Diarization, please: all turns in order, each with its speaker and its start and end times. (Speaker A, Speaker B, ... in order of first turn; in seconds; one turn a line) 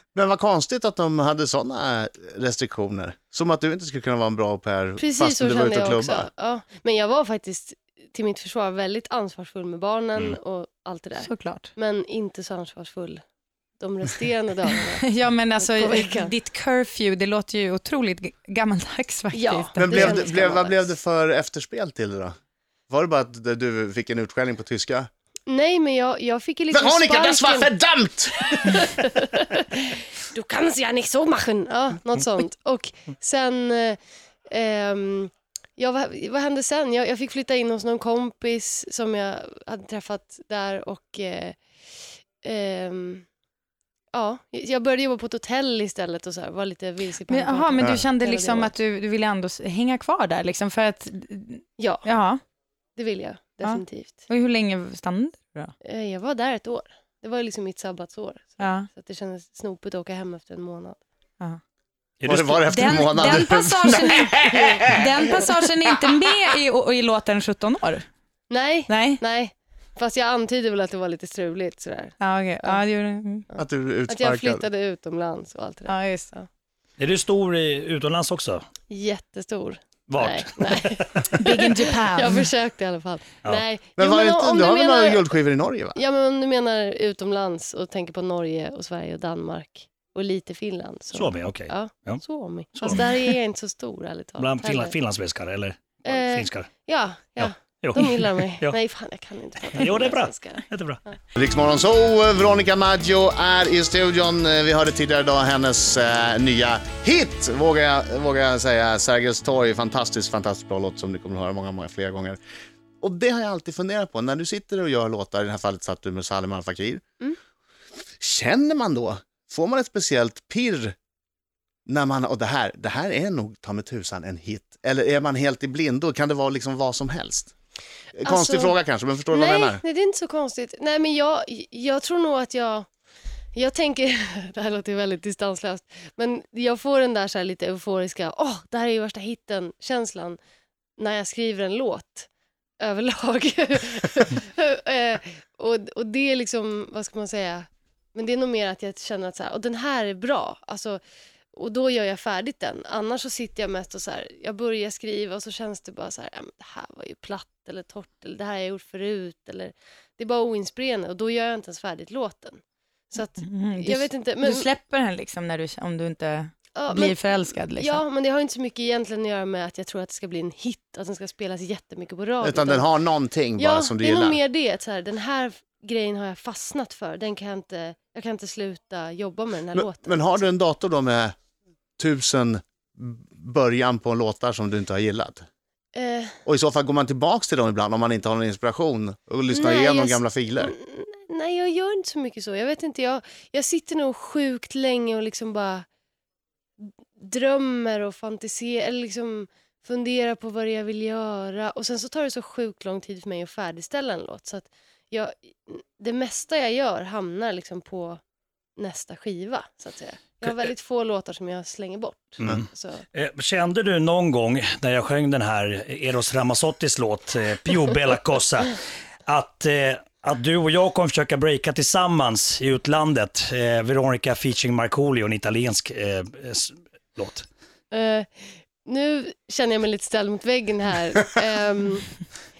Speaker A: 0.1-6.3
Speaker B: 5.0-13.2
Speaker C: 11.2-11.7
Speaker B: 13.8-16.3
Speaker C: 15.0-20.2
Speaker B: 19.3-20.9
Speaker A: 19.8-22.4
Speaker A: 22.9-25.1
Speaker B: 25.5-27.7
Speaker A: 26.7-28.4
Speaker B: 28.4-41.6
Speaker B: 42.4-43.3
Speaker B: 44.1-48.7
Speaker C: 47.3-52.4
Speaker B: 51.8-52.0
Speaker B: 53.0-54.1
Speaker C: 53.6-55.7
Speaker B: 55.8-61.0
Speaker C: 58.6-58.9
Speaker D: 62.2-63.0
Speaker A: 62.3-65.5
Speaker C: 62.7-68.1
Speaker B: 68.5-72.8
Speaker C: 68.9-69.2
Speaker C: 72.2-73.5
Speaker B: 73.5-76.5
Speaker A: 73.6-74.7
Speaker C: 75.9-76.3
Speaker D: 77.0-78.7
Speaker B: 78.9-85.3
Speaker D: 80.1-81.3
Speaker C: 81.3-82.5
Speaker A: 84.0-86.0
Speaker B: 86.0-95.0
Speaker D: 91.1-92.2
Speaker D: 92.8-93.3
Speaker D: 94.4-96.7
Speaker B: 96.1-101.2
Speaker D: 97.4-98.8
Speaker D: 99.7-101.0
Speaker A: 101.4-112.4
Speaker A: 113.0-117.0
Speaker A: 118.2-121.0
Speaker A: 121.9-127.5
Speaker A: 128.2-129.8
Speaker B: 128.2-128.7
Speaker B: 129.3-132.9
Speaker B: 133.6-140.4
Speaker B: 141.0-142.3
Speaker B: 142.8-151.0
Speaker B: 151.5-164.7
Speaker C: 163.4-168.0
Speaker B: 166.8-172.8
Speaker A: 172.4-174.4
Speaker B: 173.6-180.4
Speaker A: 179.7-181.3
Speaker A: 182.0-185.4
Speaker B: 185.9-186.4
Speaker A: 186.5-190.7
Speaker B: 189.5-195.9
Speaker B: 196.8-208.2
Speaker B: 208.8-213.0
Speaker D: 212.4-227.5
Speaker B: 227.9-228.3
Speaker B: 228.8-232.2